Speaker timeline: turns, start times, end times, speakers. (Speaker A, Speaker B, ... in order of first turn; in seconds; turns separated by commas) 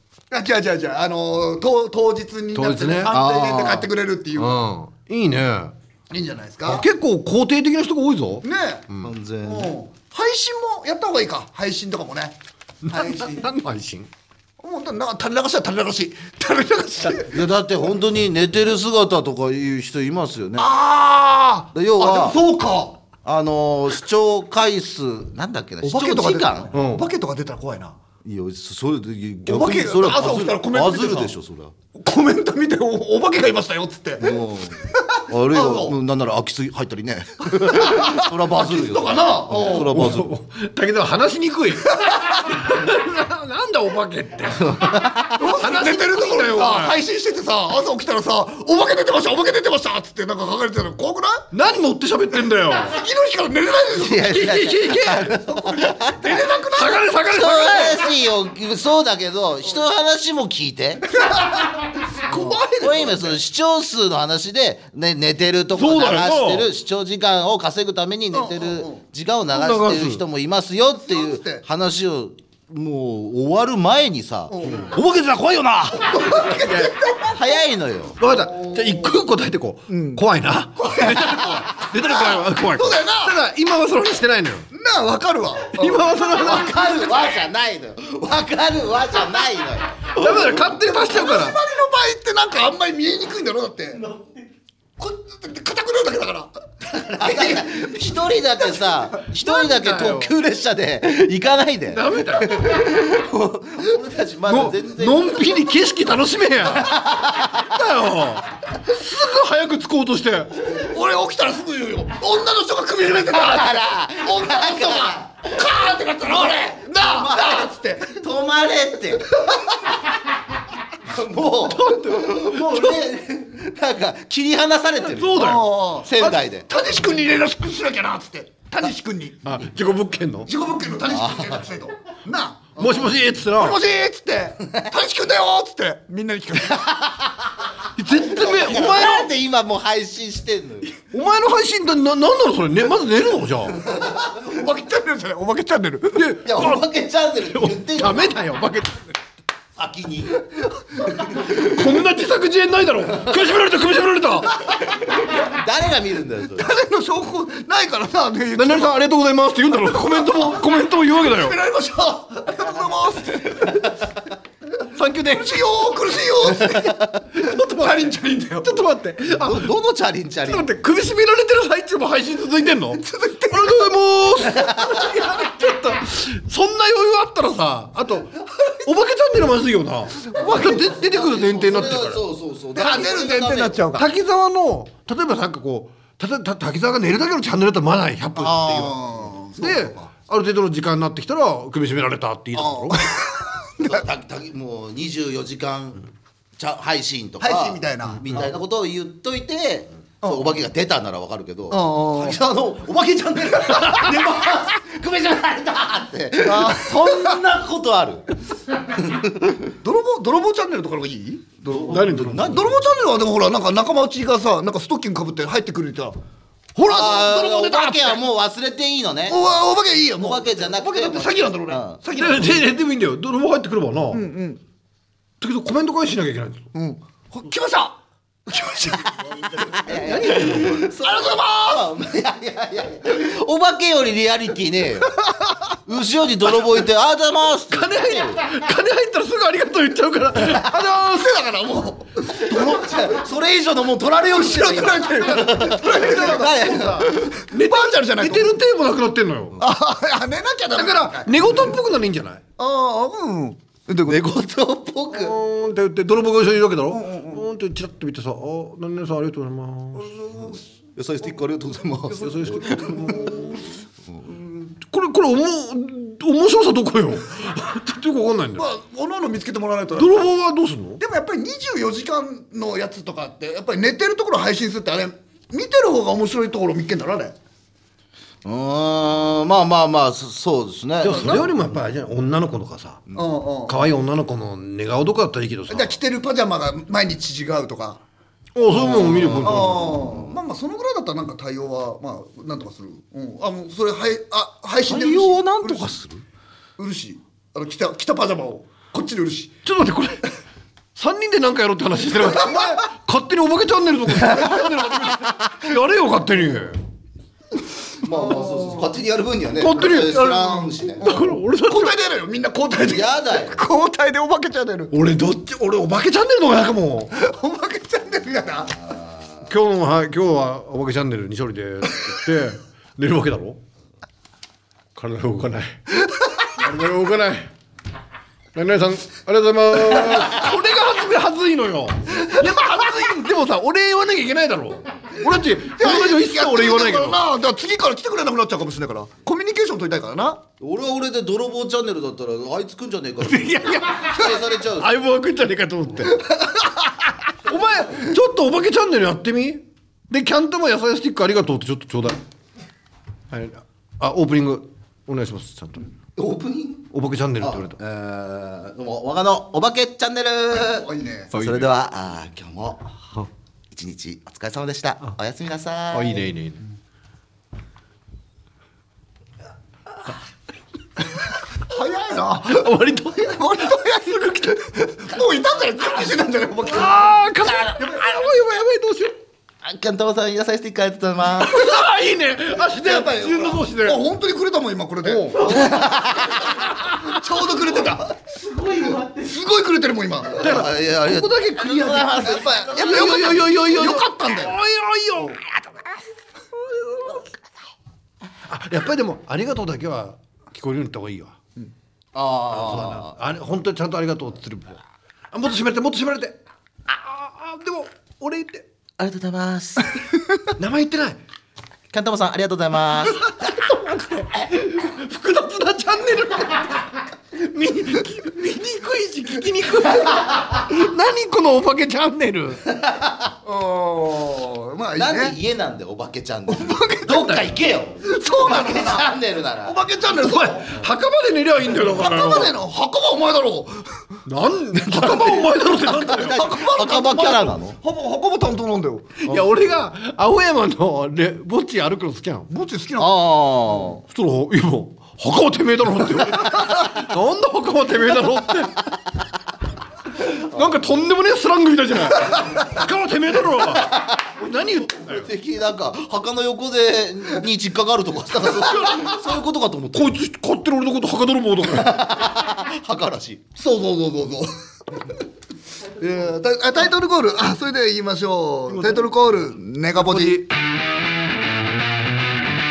Speaker A: 0.3-4.6, Speaker B: 2.5-3.1, Speaker C: 3.1-3.9, Speaker B: 4.3-5.7, Speaker A: 6.1-6.9, Speaker B: 6.7-9.1, Speaker A: 8.4-8.8, Speaker C: 9.0-9.7, Speaker A: 9.4-12.3, Speaker B: 12.8-14.1, Speaker A: 12.9-13.4, Speaker A: 14.6-17.4, Speaker C: 17.3-20.7, Speaker A: 20.6-23.0, Speaker C: 21.7-22.4, Speaker C: 23.2-26.7, Speaker A: 25.8-28.0, Speaker B: 26.7-27.0, Speaker C: 28.2-31.7, Speaker A: 29.4-31.3, Speaker A: 31.9-34.4, Speaker C: 34.2-40.3, Speaker A: 34.9-36.0, Speaker A: 37.5-40.1, Speaker B: 39.7-47.0, Speaker A: 42.0-42.4, Speaker C: 44.6-45.4, Speaker A: 45.4-51.5, Speaker B: 51.5-53.0, Speaker A: 52.7-54.5, Speaker C: 53.9-56.4, Speaker B: 54.2-58.1, Speaker A: 55.6-58.0, Speaker C: 57.3-61.1, Speaker A: 61.2-63.3, Speaker B: 62.3-62.9, Speaker C: 62.8-74.5, Speaker B: 65.7-66.7, Speaker A: 68.3-69.0, Speaker B: 69.5-70.2, Speaker A: 71.1-71.6, Speaker A: 74.5-74.9, Speaker B: 74.6-77.0, Speaker A: 76.0-77.5, Speaker C: 77.2-78.2, Speaker B: 78.2-84.7, Speaker A: 78.2-79.1, Speaker A: 79.9-80.2, Speaker A: 80.8-83.4, Speaker A: 84.7-86.3, Speaker B: 85.7-87.2, Speaker C: 86.3-90.6, Speaker B: 90.1-91.6, Speaker A: 90.5-94.0, Speaker D: 94.0-94.5, Speaker A: 95.0-98.0, Speaker C: 96.9-105.6, Speaker B: 99.4-100.3, Speaker B: 101.9-102.8, Speaker B: 104.5-110.5, Speaker C: 106.7-107.8, Speaker A: 110.7-118.2, Speaker C: 113.2-115.7, Speaker C: 116.2-119.5, Speaker C: 121.0-126.7, Speaker B: 121.7-123.0, Speaker B: 125.1-125.7, Speaker A: 125.3-129.6, Speaker B: 129.4-130.5, Speaker A: 130.4-132.8, Speaker C: 131.1-131.7, Speaker B: 132.7-133.8, Speaker C: 132.8-133.2, Speaker A: 133.5-137.1, Speaker C: 136.8-137.5, Speaker B: 137.9-139.3, Speaker C: 138.3-140.9, Speaker B: 141.0-143.8, Speaker A: 143.9-146.3, Speaker B: 146.1-146.8, Speaker C: 146.4-148.4, Speaker B: 147.5-149.2, Speaker C: 149.8-150.4, Speaker B: 151.3-154.6, Speaker C: 155.2-156.7, Speaker A: 156.6-159.0, Speaker B: 158.6-161.6, Speaker A: 160.0-160.6, Speaker A: 161.2-164.0, Speaker B: 164.9-165.6, Speaker A: 165.3-168.8, Speaker B: 167.3-169.7, Speaker C: 169.2-170.7, Speaker B: 170.4-182.2, Speaker A: 173.0-173.9, Speaker C: 174.5-175.2, Speaker C: 180.3-183.8, Speaker A: 182.7-184.1, Speaker B: 183.9-193.1, Speaker A: 188.4-190.1, Speaker A: 192.6-194.0, Speaker C: 193.8-196.0, Speaker C: 196.6-208.3, Speaker A: 197.4-198.4, Speaker A: 200.2-200.6, Speaker A: 201.7-202.4, Speaker A: 206.4-207.4, Speaker C: 208.8-209.7, Speaker A: 209.8-216.2, Speaker C: 211.6-212.8, Speaker B: 211.9-212.7, Speaker A: 216.8-218.2, Speaker C: 216.9-219.4, Speaker A: 219.3-222.6, Speaker C: 220.2-222.0, Speaker B: 222.1-224.2, Speaker A: 224.1-224.6, Speaker B: 225.4-226.6, Speaker A: 226.7-231.9, Speaker C: 229.2-235.1, Speaker B: 229.9-230.8, Speaker A: 235.2-235.6, Speaker C: 235.8-238.4, Speaker B: 237.7-241.4, Speaker A: 240.6-243.2, Speaker C: 242.3-247.4, Speaker A: 244.3-248.6, Speaker B: 246.0-249.6, Speaker A: 249.6-251.6, Speaker B: 250.7-252.4, Speaker A: 252.6-254.2, Speaker C: 254.1-255.4, Speaker B: 255.1-260.1, Speaker A: 256.9-257.4, Speaker A: 259.9-260.6, Speaker C: 260.9-264.3, Speaker B: 262.1-263.6, Speaker A: 262.7-263.7, Speaker B: 264.8-268.6, Speaker A: 268.6-270.3, Speaker B: 270.0-271.0, Speaker A: 271.0-277.4, Speaker C: 278.4-281.7, Speaker B: 281.0-283.1, Speaker A: 283.1-283.8, Speaker B: 283.6-285.9, Speaker A: 285.7-288.0, Speaker B: 288.5-290.0, Speaker C: 288.7-290.4, Speaker A: 288.8-296.0, Speaker C: 294.8-296.2, Speaker A: 296.8-299.5, Speaker B: 299.6-300.3, Speaker B: 300.9-306.8, Speaker A: 302.3-302.8, Speaker C: 308.0-311.1, Speaker B: 309.6-311.9, Speaker A: 311.0-314.9, Speaker C: 312.8-313.6, Speaker B: 314.9-317.1, Speaker A: 317.1-318.8, Speaker C: 318.7-319.5, Speaker B: 319.5-323.6, Speaker B: 324.9-325.8, Speaker B: 326.5-327.5, Speaker B: 328.5-337.2, Speaker A: 335.2-340.4, Speaker C: 340.6-344.9, Speaker B: 343.2-346.3, Speaker B: 347.4-352.2, Speaker B: 353.3-355.9, Speaker C: 356.1-362.9, Speaker B: 356.9-357.8, Speaker A: 360.7-361.3, Speaker B: 361.3-361.7, Speaker C: 363.7-366.3, Speaker B: 365.9-366.6, Speaker A: 371.6-377.1, Speaker B: 372.4-374.5, Speaker B: 376.6-379.1, Speaker A: 377.7-378.1, Speaker C: 379.6-381.7, Speaker B: 381.4-384.0, Speaker A: 382.7-388.1, Speaker B: 385.0-385.3, Speaker C: 385.3-386.6, Speaker D: 385.4-385.9, Speaker D: 388.2-389.4, Speaker A: 389.2-390.5, Speaker C: 390.3-393.4, Speaker B: 390.4-395.6, Speaker A: 392.2-394.6, Speaker B: 398.5-401.4, Speaker C: 402.1-403.2, Speaker B: 402.5-404.8, Speaker B: 405.3-408.6, Speaker C: 409.0-410.1, Speaker B: 410.5-411.2, Speaker C: 411.9-413.3, Speaker B: 413.2-422.6, Speaker C: 422.7-423.3, Speaker A: 423.4-425.4, Speaker C: 424.9-429.8, Speaker A: 426.5-427.4, Speaker B: 427.1-427.5, Speaker A: 428.0-430.8, Speaker B: 430.1-432.5, Speaker A: 431.8-434.0, Speaker B: 434.2-436.5, Speaker C: 435.0-437.8, Speaker A: 436.1-439.1, Speaker B: 439.2-442.5, Speaker C: 439.2-439.5, Speaker A: 442.5-443.1, Speaker C: 443.0-444.0, Speaker B: 444.1-449.0, Speaker B: 450.1-455.3, Speaker C: 453.7-454.3, Speaker C: 455.0-460.1, Speaker B: 458.5-459.1, Speaker B: 459.9-462.1, Speaker C: 461.6-463.4, Speaker A: 463.6-464.5, Speaker A: 466.0-470.4, Speaker D: 466.0-466.3, Speaker B: 468.7-469.1, Speaker B: 470.0-470.4